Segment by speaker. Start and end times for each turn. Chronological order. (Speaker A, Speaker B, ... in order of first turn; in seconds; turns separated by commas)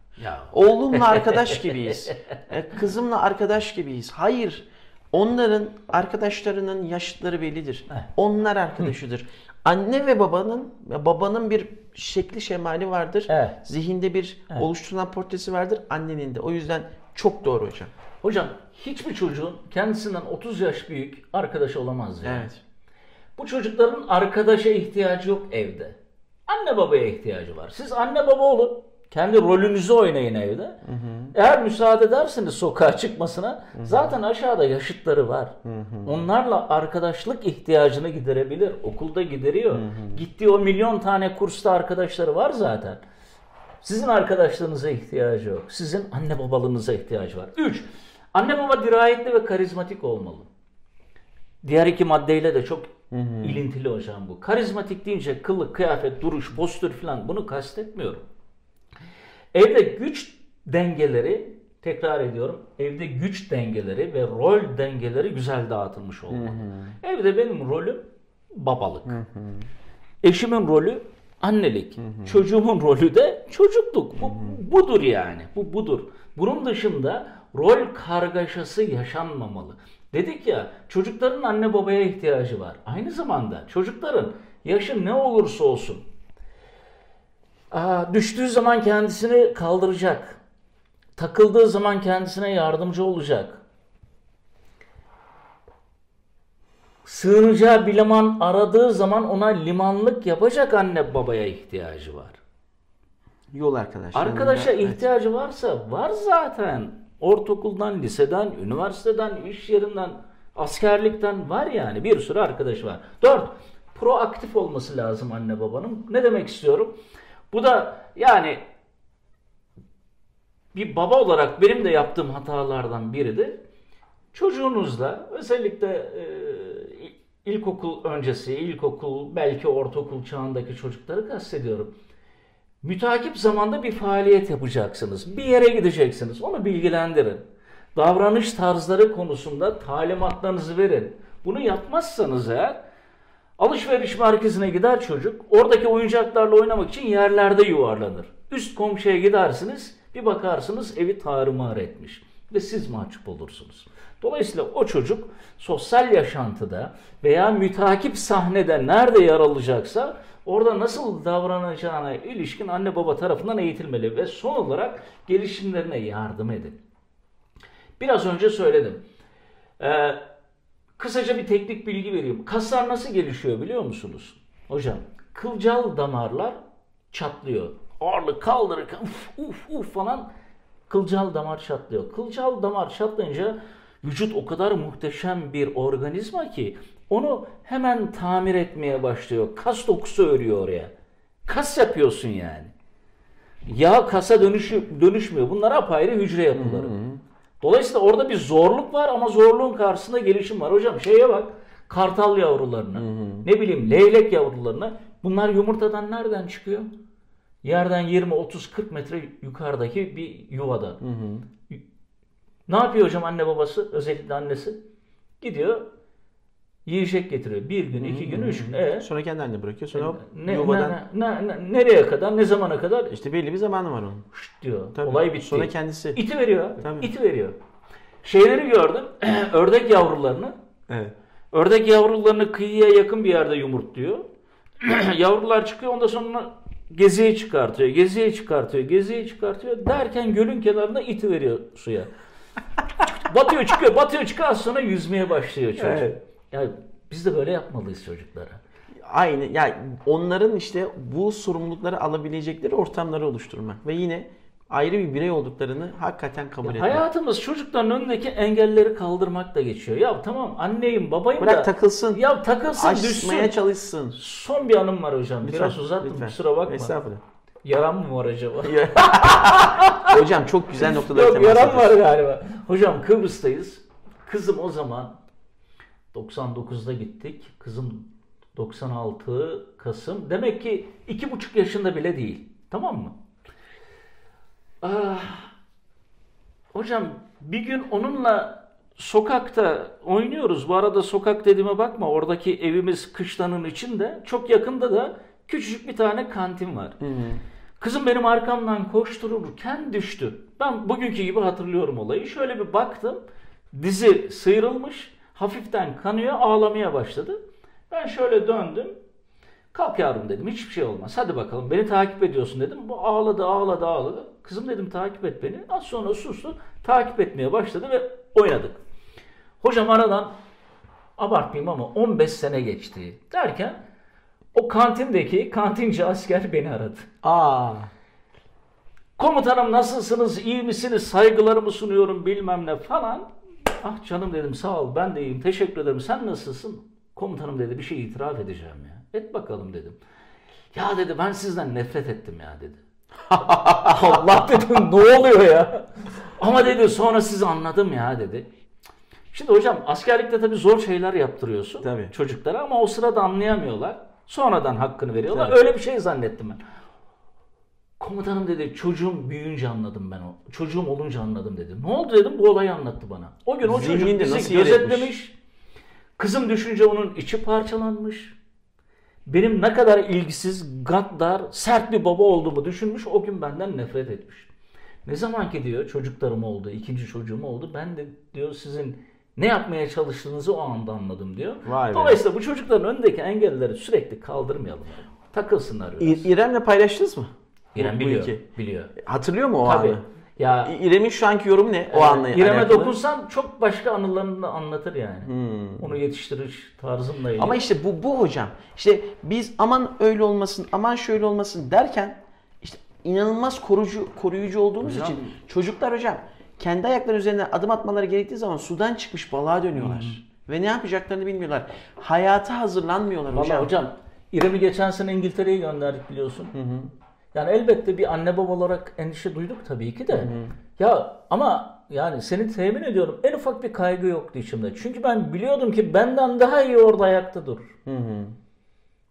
Speaker A: 0.2-2.4, Speaker B: 0.5-17.9, Speaker A: 13.3-13.6, Speaker A: 18.2-22.5, Speaker B: 22.2-22.6, Speaker A: 23.4-43.0, Speaker B: 30.8-31.3, Speaker B: 33.8-34.1, Speaker B: 35.6-36.2, Speaker B: 39.7-40.2, Speaker A: 43.8-50.5, Speaker A: 51.6-58.2, Speaker B: 53.1-53.6, Speaker A: 59.5-69.2, Speaker B: 66.3-66.9, Speaker B: 69.1-69.7, Speaker A: 70.2-86.0, Speaker B: 72.0-72.4, Speaker B: 74.2-74.6, Speaker A: 87.7-90.4, Speaker A: 91.2-93.6, Speaker A: 97.0-102.4, Speaker B: 103.5-105.0, Speaker A: 104.1-117.0, Speaker A: 117.5-118.6, Speaker A: 120.7-123.6, Speaker A: 124.3-131.9, Speaker A: 132.8-142.8, Speaker A: 143.6-166.8, Speaker A: 168.0-169.0, Speaker A: 169.8-170.2, Speaker A: 171.0-176.6, Speaker A: 177.1-180.3, Speaker A: 180.9-190.9, Speaker A: 191.4-192.7, Speaker A: 193.7-197.0, Speaker B: 196.5-197.2, Speaker A: 197.6-206.9, Speaker B: 202.9-203.5, Speaker A: 207.6-211.0, Speaker B: 211.0-211.4, Speaker A: 212.7-214.8, Speaker A: 215.4-215.8, Speaker A: 216.8-219.1, Speaker B: 218.0-221.0, Speaker A: 219.9-223.1, Speaker B: 223.1-224.2, Speaker A: 224.3-227.6, Speaker B: 224.9-226.2, Speaker B: 226.8-227.1, Speaker A: 228.2-230.5, Speaker A: 231.5-234.2, Speaker A: 234.8-242.1, Speaker A: 243.0-248.6, Speaker B: 245.8-246.2, Speaker B: 249.0-257.0, Speaker A: 256.6-263.6, Speaker B: 261.4-262.2, Speaker B: 262.8-264.2, Speaker A: 264.1-266.9, Speaker B: 265.4-267.2, Speaker A: 267.6-270.1, Speaker B: 268.6-272.0, Speaker A: 270.8-275.2, Speaker A: 276.1-283.1, Speaker A: 284.8-285.5, Speaker A: 286.7-297.0, Speaker B: 297.0-297.4, Speaker A: 297.8-308.9, Speaker A: 309.7-318.8, Speaker A: 319.6-320.3, Speaker A: 321.2-323.8, Speaker A: 324.5-327.1, Speaker B: 327.2-327.9, Speaker A: 329.2-333.3, Speaker A: 333.8-340.0, Speaker A: 340.7-342.8, Speaker B: 343.3-344.2, Speaker A: 343.4-348.5, Speaker A: 349.3-356.6, Speaker B: 351.8-352.1, Speaker B: 355.3-355.6, Speaker A: 358.0-365.3, Speaker B: 363.6-365.1, Speaker A: 366.2-368.3, Speaker A: 369.2-374.5, Speaker A: 375.0-386.3, Speaker B: 381.6-382.2, Speaker B: 386.0-388.4, Speaker A: 387.7-389.0, Speaker B: 388.9-390.0, Speaker A: 389.6-390.7, Speaker B: 390.6-392.9, Speaker A: 391.9-397.6, Speaker B: 395.2-396.0, Speaker B: 397.4-413.7, Speaker A: 404.8-405.4, Speaker A: 409.8-410.2, Speaker A: 413.3-416.5, Speaker B: 416.5-416.9, Speaker A: 417.3-427.7, Speaker B: 420.1-420.5, Speaker B: 427.9-428.4